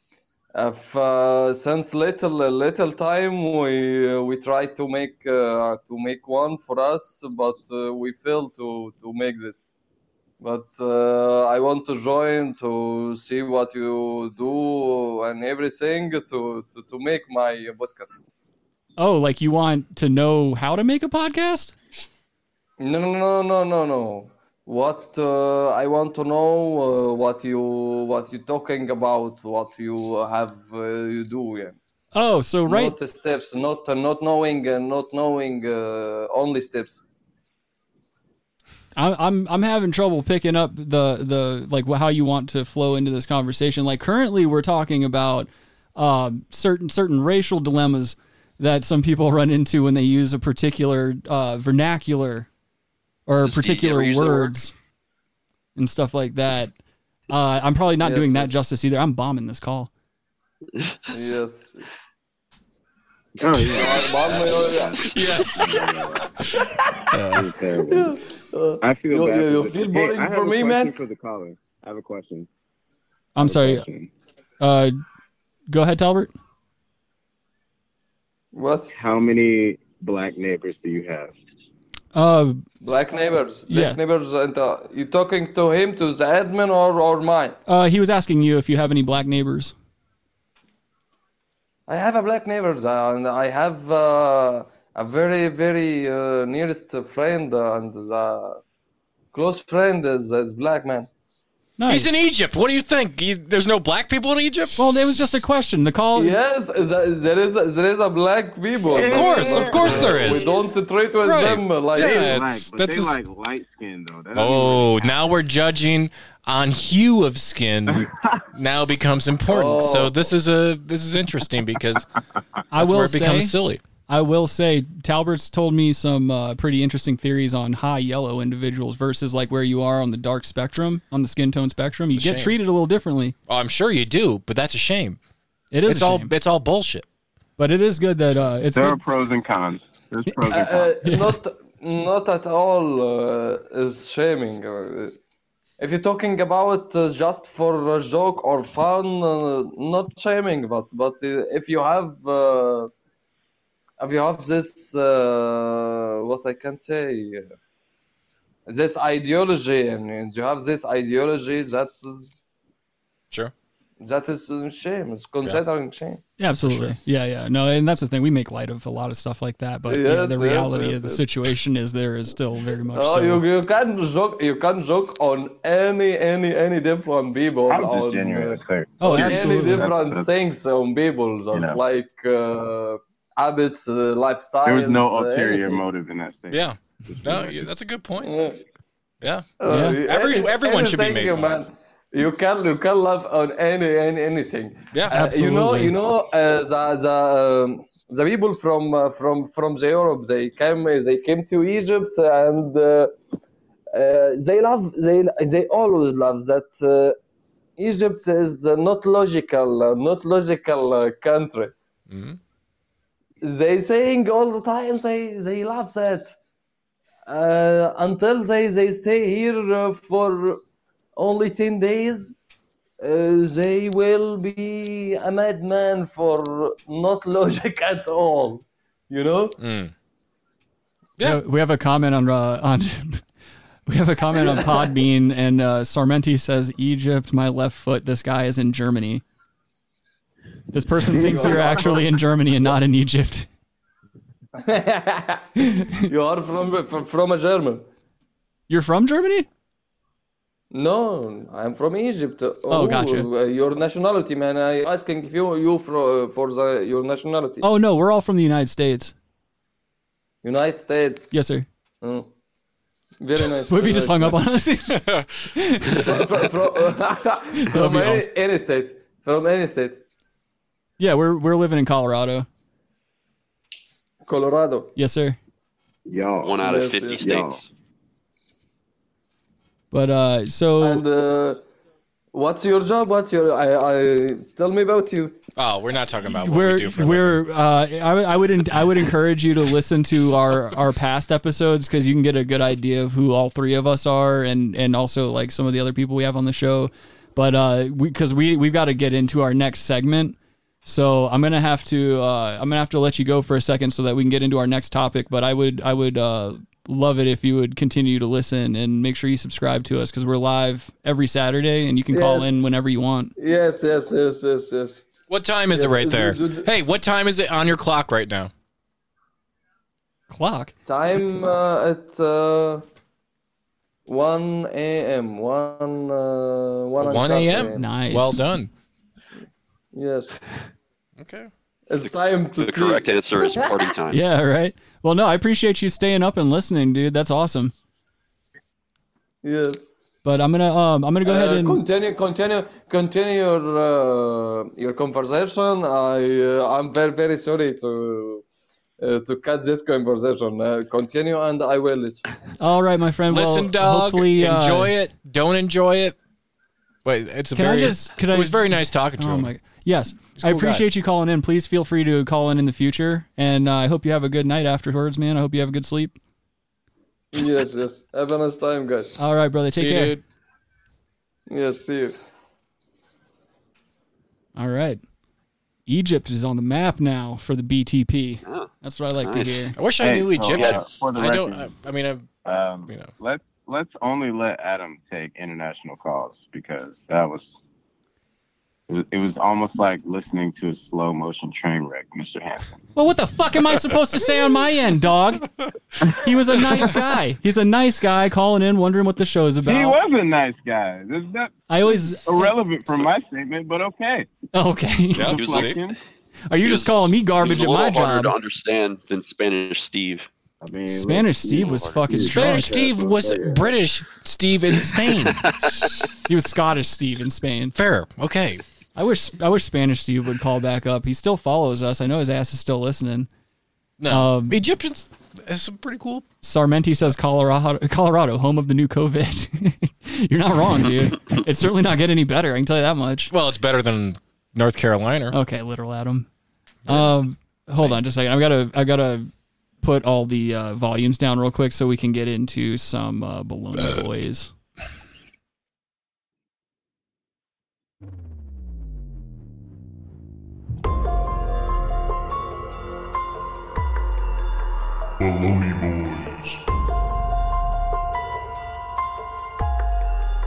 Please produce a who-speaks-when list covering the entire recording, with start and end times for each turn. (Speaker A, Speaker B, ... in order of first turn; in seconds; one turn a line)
Speaker A: 0.5-9.6
Speaker A: 10.4-18.2
Speaker B: 19.0-21.7
Speaker A: 22.8-31.8
Speaker B: 32.1-32.9
Speaker A: 32.7-37.0
Speaker B: 39.0-52.5
Speaker B: 53.3-54.7
Speaker C: 53.4-54.5
Speaker B: 55.8-56.7
Speaker B: 57.3-59.9
Speaker A: 58.0-58.5
Speaker A: 61.1-61.8
Speaker D: 63.4-66.3
Speaker A: 63.7-65.4
Speaker C: 65.0-65.7
Speaker E: 67.1-67.4
Speaker D: 67.3-68.2
Speaker A: 67.8-71.0
Speaker D: 68.8-72.5
Speaker B: 73.3-73.8
Speaker D: 73.4-74.1
Speaker B: 74.6-74.9
Speaker B: 75.7-76.3
Speaker A: 78.5-78.9
Speaker D: 78.9-81.3
Speaker B: 82.1-83.1
Speaker A: 82.8-87.5
Speaker B: 83.7-84.0
Speaker B: 87.7-89.7
Speaker A: 91.9-98.6
Speaker A: 99.3-101.1
Speaker B: 101.8-102.2
Speaker E: 101.8-104.8
Speaker B: 104.8-106.4
Speaker A: 106.2-112.3
Speaker D: 108.9-110.6
Speaker E: 109.0-110.5
Speaker E: 111.2-113.2
Speaker D: 112.0-115.2
Speaker E: 114.3-122.0
Speaker D: 117.9-118.4
Speaker A: 119.5-120.2
Speaker B: 122.7-123.5
Speaker E: 122.7-123.8
Speaker B: 124.1-133.3
Speaker E: 132.1-132.5
Speaker E: 133.5-135.2
Speaker B: 135.7-136.3
Speaker E: 135.9-137.0
Speaker B: 137.6-139.0
Speaker D: 138.7-141.0
Speaker A: 140.5-145.1
Speaker B: 141.0-141.3
Speaker A: 145.8-152.9
Speaker A: 154.0-157.5
Speaker A: 158.7-162.5
Speaker A: 164.0-166.2
Speaker B: 166.4-173.4
Speaker E: 166.6-166.9
Speaker A: 169.9-171.2
Speaker A: 172.9-185.8
Speaker D: 177.7-180.3
Speaker B: 179.0-179.9
Speaker D: 181.5-181.8
Speaker D: 184.6-187.6
Speaker E: 186.5-188.3
Speaker A: 188.2-188.6
Speaker E: 189.2-191.6
Speaker A: 189.6-203.2
Speaker B: 189.7-190.0
Speaker B: 195.1-195.9
Speaker A: 203.9-207.2
Speaker A: 207.8-211.7
Speaker E: 212.1-212.4
Speaker A: 213.4-216.3
Speaker A: 217.3-220.6
Speaker A: 221.2-222.3
Speaker A: 223.0-229.6
Speaker E: 229.6-229.9
Speaker B: 231.2-233.2
Speaker B: 233.9-239.2
Speaker B: 240.7-243.5
Speaker A: 241.1-242.1
Speaker A: 244.6-245.5
Speaker A: 246.1-247.8
Speaker B: 248.7-249.4
Speaker A: 250.7-257.7
Speaker B: 252.7-253.3
Speaker B: 257.6-259.1
Speaker A: 260.4-261.3
Speaker B: 261.3-261.6
Speaker A: 262.0-262.3
Speaker A: 263.2-264.4
Speaker B: 263.7-265.0
Speaker E: 264.9-265.3
Speaker B: 265.5-266.1
Speaker A: 266.0-270.0
Speaker B: 267.6-268.3
Speaker B: 271.0-272.5
Speaker A: 274.2-274.9
Speaker B: 274.9-275.4
Speaker D: 276.1-277.6
Speaker C: 276.4-277.6
Speaker A: 276.6-277.2
Speaker B: 279.9-281.0
Speaker A: 280.8-281.6
Speaker A: 282.3-285.4
Speaker E: 285.6-287.4
Speaker B: 286.4-313.3
Speaker A: 312.1-312.5
Speaker A: 313.4-315.1
Speaker E: 315.3-318.5
Speaker A: 315.7-316.6
Speaker B: 320.3-320.7
Speaker A: 320.9-322.8
Speaker A: 324.1-327.8
Speaker E: 327.0-328.7
Speaker B: 327.8-328.4
Speaker A: 329.9-330.3
Speaker E: 331.2-331.5
Speaker A: 331.9-333.1
Speaker C: 332.0-334.2
Speaker B: 334.1-337.7
Speaker A: 339.4-339.9
Speaker B: 340.2-341.8
Speaker A: 341.2-348.4
Speaker A: 349.0-352.3
Speaker B: 352.6-354.9
Speaker E: 353.3-356.1
Speaker E: 357.0-359.5
Speaker B: 357.5-366.1
Speaker E: 360.4-360.8
Speaker A: 367.3-369.1
Speaker B: 369.2-370.2
Speaker E: 369.7-370.2
Speaker A: 371.5-372.2
Speaker B: 374.6-375.0
Speaker B: 375.9-379.7
Speaker C: 379.2-379.7
Speaker E: 379.7-382.3
Speaker D: 380.0-381.7
Speaker C: 380.5-381.1
Speaker D: 382.4-387.5
Speaker D: 388.9-392.8
Speaker B: 392.9-395.4
Speaker B: 396.2-400.0
Speaker D: 399.6-404.3
Speaker B: 401.7-402.5
Speaker B: 404.5-405.4
Speaker C: 405.1-405.9
Speaker D: 405.2-406.0
Speaker B: 406.5-408.4
Speaker C: 406.6-410.3
Speaker D: 410.6-413.7
Speaker B: 410.9-412.8
Speaker C: 411.6-412.0
Speaker E: 412.3-415.4
Speaker B: 416.3-417.7
Speaker E: 417.7-418.6
Speaker B: 418.9-423.3
Speaker E: 424.0-426.2
Speaker B: 424.1-424.6
Speaker B: 426.4-433.3
Speaker E: 433.3-435.4
Speaker B: 435.3-436.3
Speaker E: 436.9-437.2
Speaker B: 436.9-439.3
Speaker B: 439.8-444.5